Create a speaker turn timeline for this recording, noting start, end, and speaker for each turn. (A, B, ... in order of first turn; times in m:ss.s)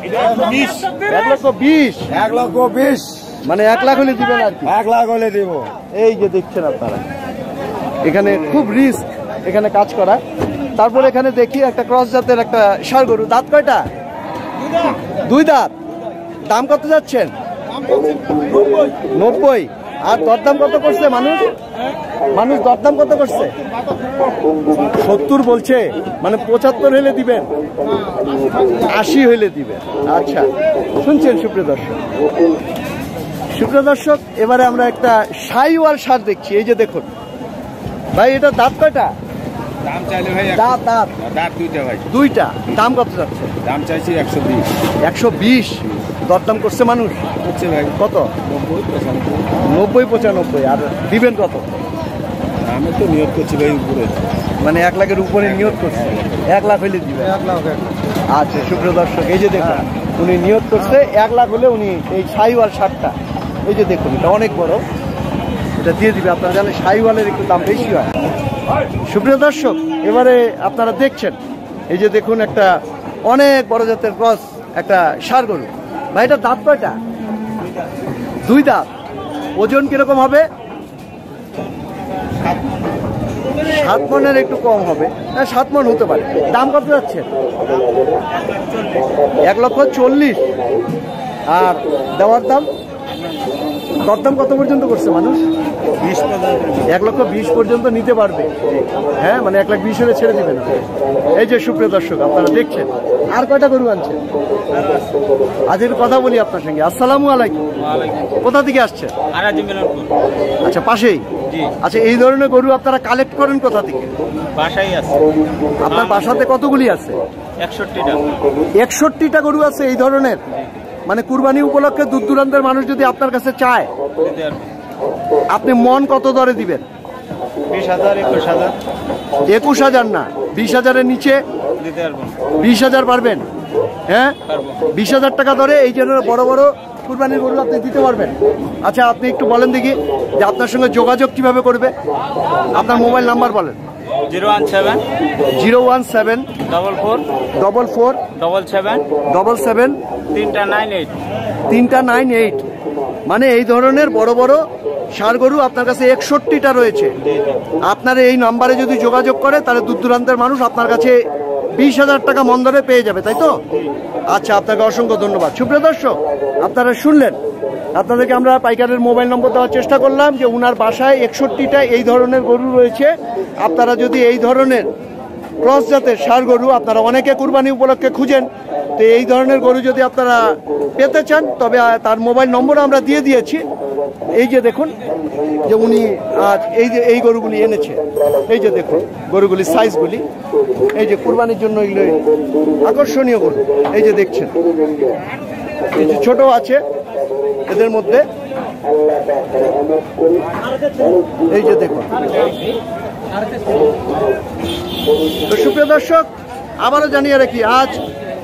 0:00.6-0:02.1 A
0:02.2-0:03.4 B
0:03.4-0:04.8 A
0:04.8-0:05.7 B
0:05.9-0:07.0 A
0:08.0-0:10.2 A
0:10.7-0:13.8 A
0:15.2-0:15.8 A
0:16.5-0:17.3 A
0:19.1-0:21.5 A
0:22.3-0:23.5 A
0:24.7-0:27.5 A
0:28.8-0:32.0 A
0:33.5-0:37.1 A
0:38.2-0:39.1 A
0:40.5-0:41.2 A
0:41.3-0:42.0 C
0:42.1-0:43.6 A
0:43.7-0:44.7 C
0:45.0-0:47.3 A
0:47.9-0:48.3 A
0:49.6-0:51.7 A
0:52.7-0:54.0 B
0:52.8-0:54.2 C
0:54.6-0:57.4 A
0:58.3-1:04.8 A
1:05.8-1:08.2 A
1:09.1-1:11.4 A
1:11.9-1:17.0 A
1:18.4-1:18.9 A
1:19.6-1:20.5 A
1:23.7-1:27.3 A
1:29.5-1:30.4 A
1:31.5-1:32.7 A
1:34.0-1:35.4 A
1:36.2-1:36.5 D
1:36.8-1:38.6 A
1:39.2-1:44.2 A
1:45.7-1:47.7 A
1:47.8-1:48.3 D
1:48.4-1:49.1 A
1:49.3-1:50.2 D
1:50.6-1:51.3 A
1:51.8-1:54.1 A
1:54.6-1:56.3 D
1:55.8-1:57.2 A
1:57.6-1:58.2 D
1:58.8-2:00.4 A
2:01.1-2:03.9 A
2:04.2-2:04.7 D
2:05.5-2:06.8 A
2:07.7-2:08.8 D
2:09.5-2:11.4 A
2:11.8-2:12.4 D
2:12.6-2:13.4 A
2:14.1-2:14.4 A
2:14.5-2:14.8 D
2:14.9-2:21.9 A
2:22.7-2:23.8 A
2:24.3-2:25.0 D
2:25.5-2:26.5 A
2:26.6-2:27.2 D
2:27.6-2:28.2 A
2:28.3-2:29.1 D
2:29.2-2:30.0 A
2:30.3-2:31.1 D
2:31.7-2:32.6 A
2:33.2-2:37.1 A
2:37.8-2:43.6 A
2:44.3-2:47.4 A
2:48.0-2:54.9 A
2:55.6-3:03.6 A
3:04.3-3:05.0 A
3:05.6-3:10.2 A
3:10.9-3:12.2 A
3:12.8-3:14.5 A
3:15.9-3:16.8 A
3:17.6-3:18.2 A
3:21.5-3:22.2 A
3:25.5-3:26.3 A
3:26.8-3:28.0 A